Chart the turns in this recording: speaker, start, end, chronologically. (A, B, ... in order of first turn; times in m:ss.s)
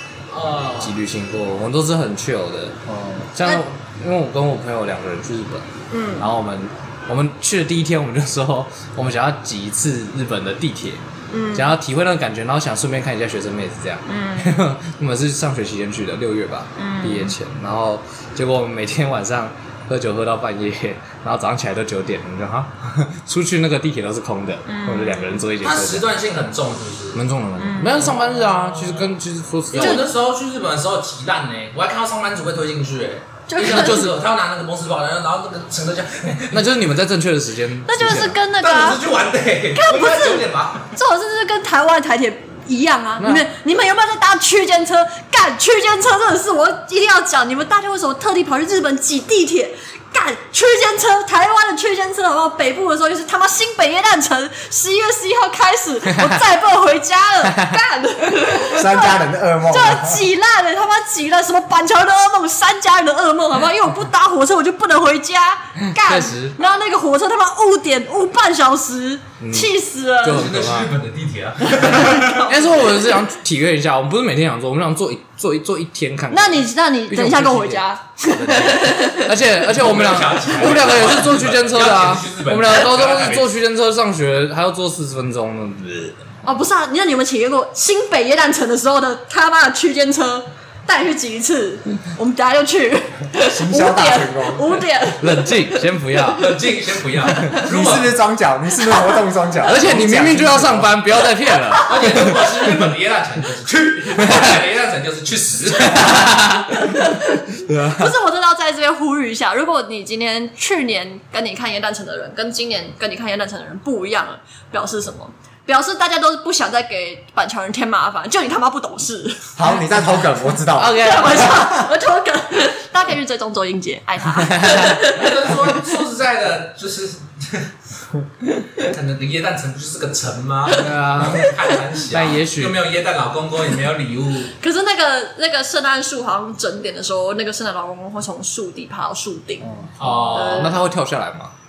0:00.3-0:01.0 A
0:00.8-0:02.8 B
0:02.9-0:03.3 C
0:03.3-0:26.1 B
0:05.9-0:06.3 D
0:11.3-0:11.7 D
0:14.1-0:14.6 D
0:16.8-0:17.4 D
0:24.7-0:25.4 D
0:25.6-0:27.2 A
0:27.1-0:30.1 B
0:27.6-0:28.2 D
0:28.0-0:29.2 A
0:29.7-0:36.6 A
0:29.8-0:30.1 D
0:33.5-0:34.1 D
0:33.6-0:34.2 B
0:36.5-0:38.4 B
0:37.9-0:39.0 D
0:38.6-0:40.9 A
0:39.8-1:10.5 D
0:43.2-0:43.5 B
0:56.2-0:56.4 B
0:57.5-0:57.8 B
0:58.6-1:00.2 C
1:05.9-1:06.6 B
1:09.4-1:09.7 B
1:10.2-1:10.9 B
1:10.2-1:12.5 A
1:11.8-1:12.8 D
1:12.2-1:26.2 B
1:16.3-1:19.3 D
1:19.7-1:23.5 A
1:26.4-1:36.0 D
1:33.4-1:34.8 C
1:35.2-1:36.6 B
1:36.3-1:38.2 A
1:37.6-1:40.9 C
1:38.8-1:39.2 D
1:39.6-1:42.5 B
1:41.5-1:42.4 D
1:41.8-1:46.5 A
1:44.2-1:44.6 B
1:45.8-1:48.2 B
1:46.7-1:59.8 D
1:59.6-2:01.8 C
2:00.7-2:01.8 B
2:00.9-2:05.8 D
2:04.4-2:05.0 B
2:04.7-2:07.7 A
2:08.8-2:14.5 A
2:10.7-2:11.5 B
2:11.2-2:11.7 D
2:12.1-2:12.8 B
2:14.6-2:20.8 D
2:20.0-2:20.8 A
2:20.1-2:21.5 B